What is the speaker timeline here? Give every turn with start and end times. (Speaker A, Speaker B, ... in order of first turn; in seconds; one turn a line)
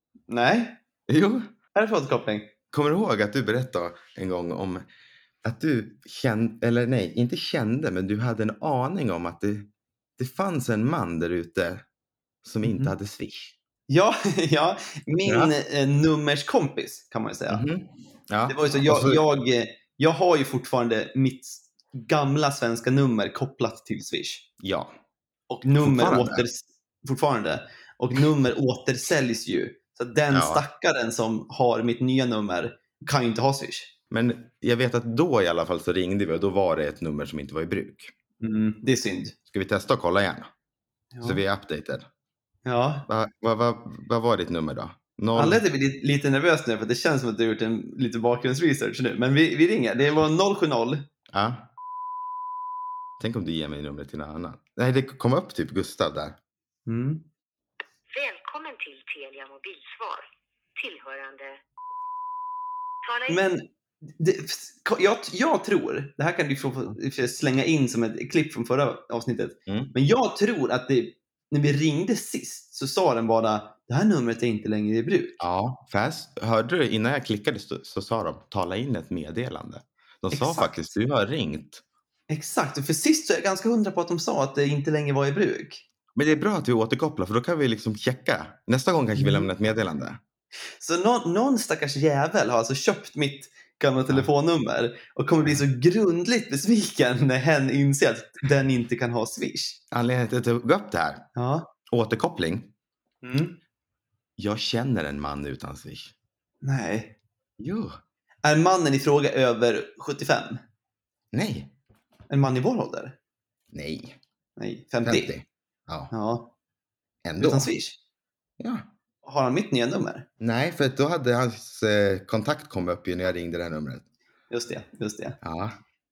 Speaker A: 0.3-0.8
Speaker B: 1.1-1.5
Speaker A: 1.8-2.5
Speaker B: 2.7-4.8
Speaker B: 5.4-11.8
Speaker B: 12.4-13.5
Speaker A: 12.6-12.9
Speaker A: 13.9-17.6
Speaker B: 15.2-15.5
Speaker B: 17.5-19.2
Speaker A: 18.5-24.4
Speaker B: 24.6-24.9
Speaker A: 25.5-33.9
Speaker B: 25.7-26.4
Speaker B: 30.3-30.6
Speaker B: 34.1-38.1
Speaker A: 38.4-39.4
Speaker B: 39.5-40.5
Speaker A: 41.1-41.4
Speaker B: 41.2-42.1
Speaker A: 42.7-43.0
Speaker B: 43.1-45.6
Speaker A: 45.4-51.0
Speaker B: 51.3-51.7
Speaker B: 53.2-56.4
Speaker A: 56.9-57.2
Speaker C: 58.1-60.2
Speaker C: 60.8-61.6
Speaker C: 63.0-63.4
Speaker A: 63.3-75.4
Speaker B: 69.7-69.9
Speaker B: 75.4-81.8
Speaker A: 80.3-80.9
Speaker A: 82.3-85.8
Speaker B: 86.2-90.2
Speaker A: 89.2-89.5
Speaker A: 90.8-99.8
Speaker B: 99.9-101.2
Speaker A: 101.4-101.7
Speaker B: 101.9-102.7
Speaker A: 103.2-103.6
Speaker B: 104.4-106.1
Speaker A: 106.6-107.1
Speaker B: 107.6-108.0
Speaker A: 108.4-110.6
Speaker B: 111.3-111.7
Speaker A: 112.3-113.1
Speaker B: 113.7-114.2
Speaker A: 114.6-115.3
Speaker B: 115.0-116.1
Speaker A: 116.1-116.5
Speaker B: 117.2-117.7
Speaker A: 117.4-118.0
Speaker B: 118.6-118.9
Speaker A: 119.2-120.3
Speaker B: 120.4-124.0
Speaker A: 124.5-125.4
Speaker B: 125.4-125.8